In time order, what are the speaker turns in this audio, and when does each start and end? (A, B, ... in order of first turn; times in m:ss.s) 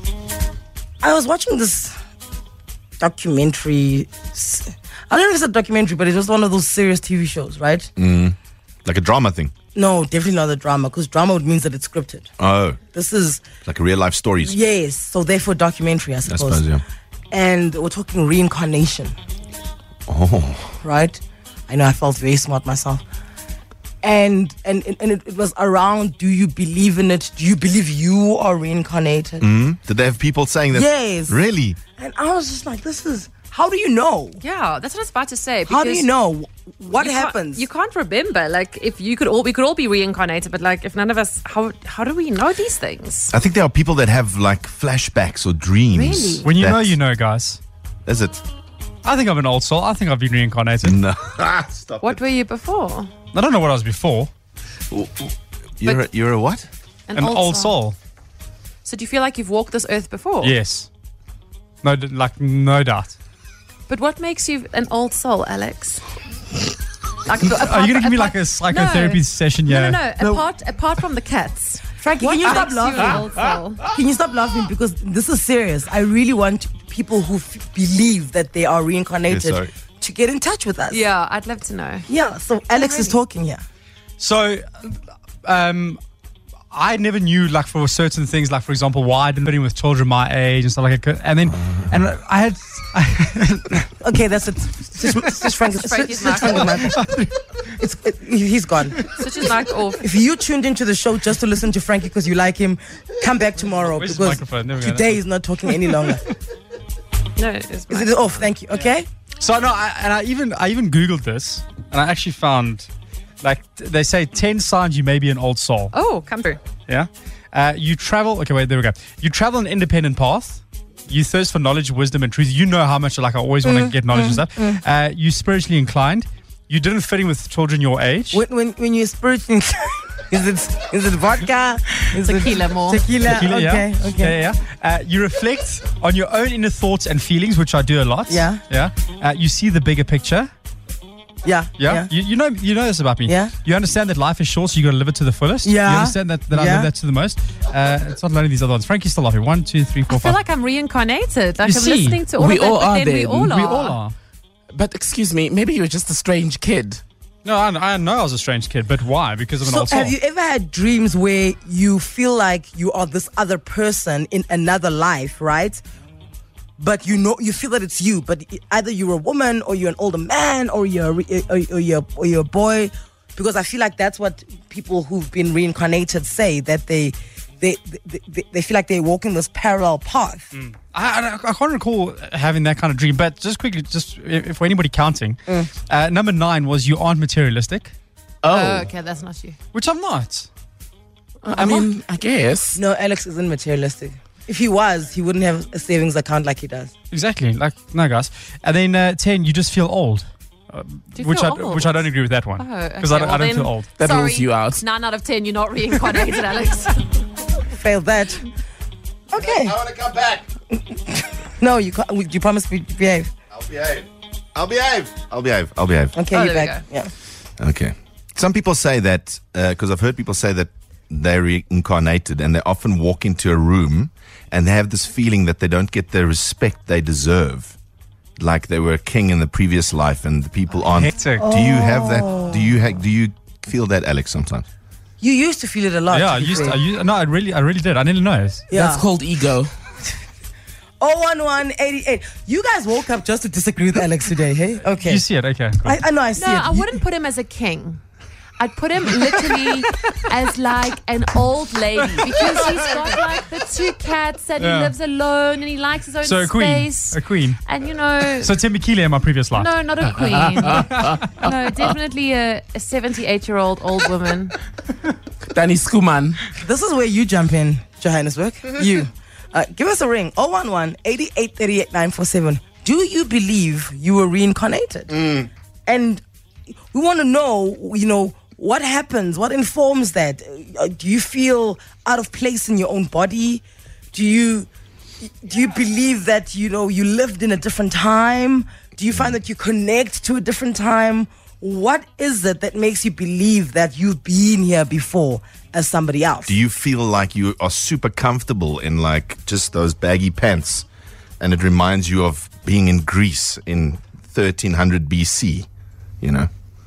0:01.0-0:02.0 A
0:03.0-0:07.9 A
0:08.0-0:09.5 B
0:09.7-0:12.3 A
0:12.4-0:12.8 B
0:12.9-0:13.4 A
0:13.6-0:14.5 B
0:14.4-0:16.6 A
0:16.3-0:16.8 B
0:17.3-0:19.2 A
0:20.1-0:20.8 B
0:20.8-0:23.0 A
0:24.0-0:29.4 A
0:29.4-0:31.8 B
0:30.7-0:31.4 A
0:32.0-0:34.4 A
0:34.4-0:36.1 C
0:35.7-0:37.6 A
0:37.0-0:43.3 C
0:43.3-0:47.0 B
0:45.9-0:46.5 C
0:46.4-0:47.6 D
0:48.0-0:48.4 B
0:49.0-0:51.0 D
0:50.8-0:52.2 B
0:52.0-0:53.1 C
0:53.3-0:54.3 D
0:54.9-0:56.7 B
0:57.1-0:57.8 C
0:57.1-0:57.9 D
0:58.8-1:00.5 C
1:00.4-1:00.9 D
1:01.8-1:03.2 D
1:03.9-1:06.0 C
1:07.2-1:13.8 C
1:07.5-1:10.0 D
1:10.2-1:10.4 A
1:12.0-1:13.2 A
1:13.9-1:21.0 A
1:19.3-1:19.7 B
1:20.9-1:22.1 C
1:22.1-1:23.6 A
1:22.7-1:23.2 C
1:24.2-1:26.0 D
1:26.7-1:34.0 D
1:34.0-1:37.0 A
1:35.0-1:35.5 D
1:35.7-1:36.8 C
1:36.4-1:37.3 D
1:37.7-1:39.1 A
1:39.2-1:40.0 C
1:40.0-1:46.2 A
1:43.9-1:46.2 D
1:47.4-1:48.5 C
1:47.9-1:49.1 A
1:49.4-1:52.9 D
1:53.4-1:55.9 D
1:55.9-1:56.6 C
1:56.9-2:08.4 D
2:03.6-2:04.8 A
2:08.3-2:14.4 A
2:12.2-2:13.0 C
2:13.2-2:20.5 D
2:18.3-2:18.6 A
2:21.4-2:22.1 A
2:21.8-2:30.4 D
2:23.2-2:23.5 A
2:25.6-2:26.9 A
2:30.1-2:34.0 C
2:31.6-2:32.3 D
2:32.4-2:33.5 E
2:33.5-2:34.1 D
2:34.7-2:37.0 E
2:37.4-2:40.1 D
2:39.6-2:45.8 A
2:46.8-3:00.5 A
3:00.5-3:07.9 D
3:08.4-3:08.9 E
3:08.4-3:09.6 C
3:09.7-3:10.5 D
3:11.4-3:12.8 E
3:11.5-3:11.9 D
3:12.7-3:16.9 A
3:17.1-3:23.9 D
3:21.1-3:27.2 C
3:24.0-3:24.8 E
3:27.6-3:28.5 A
3:29.3-3:29.8 A
3:29.4-3:30.4 B
3:31.6-3:33.3 A
3:33.5-3:36.1 B
3:36.1-3:37.1 A
3:36.3-3:36.8 C
3:37.6-3:47.8 B
3:48.4-3:54.6 B
3:50.9-3:51.5 D
3:51.4-3:52.7 A
3:55.2-3:56.8 A
3:56.1-3:58.7 D
3:58.7-3:59.1 A
3:58.7-3:59.7 E
4:01.0-4:05.2 A
4:05.0-4:06.0 D
4:05.8-4:07.0 A
4:06.4-4:08.0 C
4:08.6-4:18.5 C
4:14.6-4:14.9 D
4:16.2-4:17.6 D
4:18.3-4:19.7 D
4:19.5-4:24.5 C
4:20.4-4:21.4 D
4:20.8-4:21.3 E
4:25.4-4:26.4 E
4:26.5-4:35.3 A
4:35.9-4:36.2 A
4:36.9-4:44.7 A
4:45.2-4:56.5 A
4:56.5-5:00.8 B
5:01.4-5:05.7 B
5:06.2-5:06.5 B